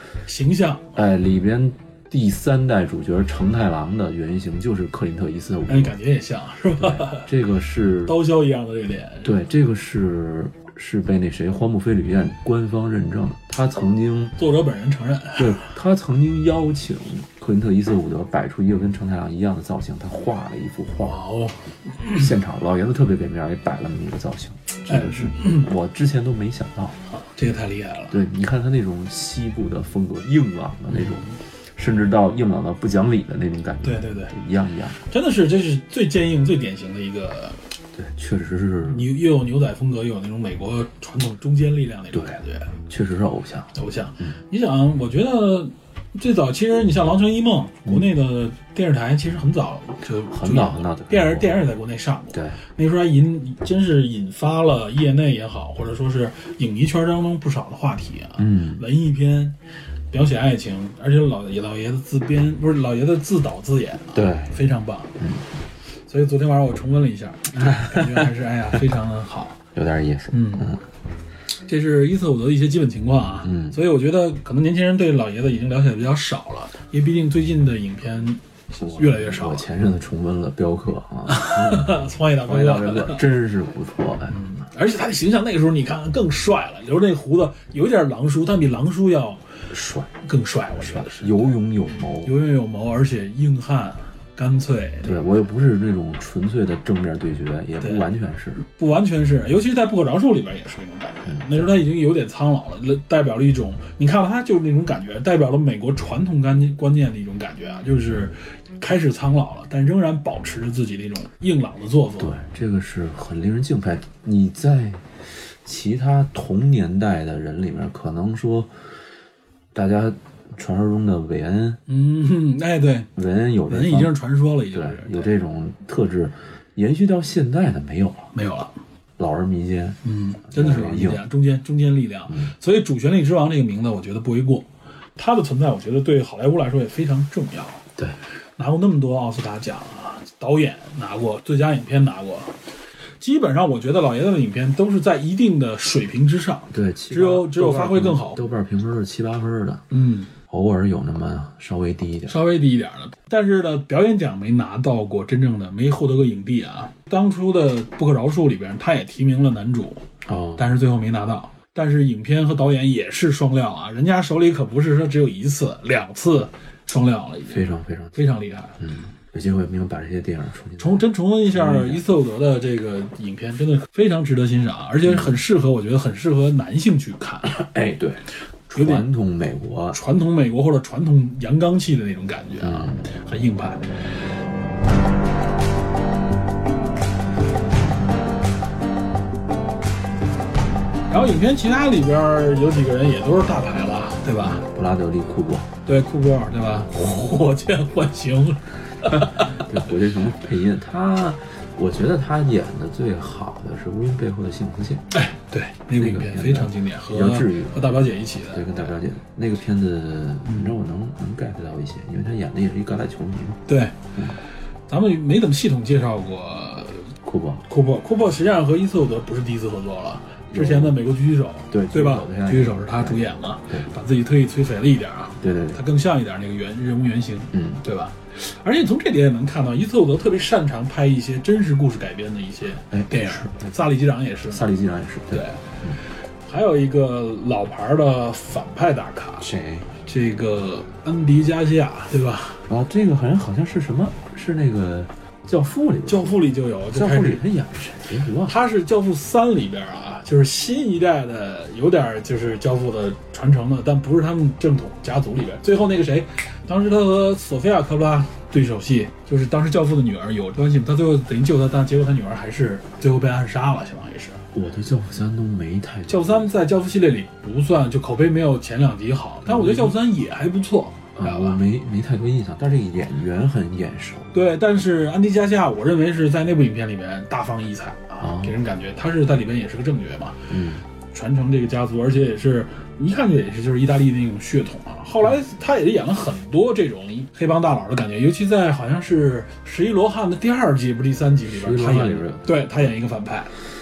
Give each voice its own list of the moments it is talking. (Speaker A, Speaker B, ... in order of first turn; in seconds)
Speaker A: 0.3-0.9, 5.7-7.3, 8.1-9.3, 14.4-15.7, 21.0-22.2, 24.9-25.7, 27.1-28.2, 30.9-31.3, 33.8-34.3, 35.1-37.6, 38.8-42.7, 43.8-59.6, 60.1-65.2, 66.1-69.6, 70.3-70.8, 71.7-79.7, 81.3-83.2, 84.3-89.4, 90.2-91.5, 92.2-95.2, 98.6-112.3, 121.9-123.1, 123.7-125.3, 128.3-128.7, 130.1-134.7, 135.2-137.8, 138.6-142.6, 143.2-148.4, 149.9-150.3, 152.3-168.8, 170.8-177.6, 178.7-179.1, 179.9-183.9, 191.1-194.7, 195.8-199.7, 205.1-208.7, 210.5-210.7, 213.7-213.9, 214.9-217.1, 217.7-234.7, 235.3-235.6, 236.5-239.5, 240.1-242.7, 246.1-247.4, 248.4-264.4, 266.1-271.6, 274.3-280.5, 281.1-293.5
Speaker B: 0.9-6.0, 6.8-8.2, 9.2-14.4, 15.4-21.2, 22.1-27.0, 28.1-35.0, 38.0-39.1, 42.9-44.4, 50.3-51.6, 52.3-52.6, 58.4-58.8, 64.1-64.5, 65.2-65.5, 67.7-68.3, 69.8-70.8, 73.4-73.8, 78.7-84.4, 89.7-90.1, 90.8-92.3, 95.0-98.6, 101.3-101.7, 112.2-118.7, 119.7-121.8, 123.2-124.1, 124.7-128.3, 129.2-131.2, 146.7-149.8, 150.5-152.4, 160.3-160.6, 167.5-168.2, 168.8-172.0, 175.0-175.3, 177.4-180.0, 182.6-183.1, 194.4-195.7, 199.1-205.1, 205.9-207.8, 208.5-214.4, 217.2-217.7, 220.5-221.0, 221.7-223.9, 225.4-225.8, 227.5-227.8, 232.9-233.8, 234.5-236.0, 239.4-239.9, 242.7-248.6, 264.5-266.5, 269.5-270.0, 271.2-274.4, 278.2-278.6, 280.5-280.9, 291.5-292.5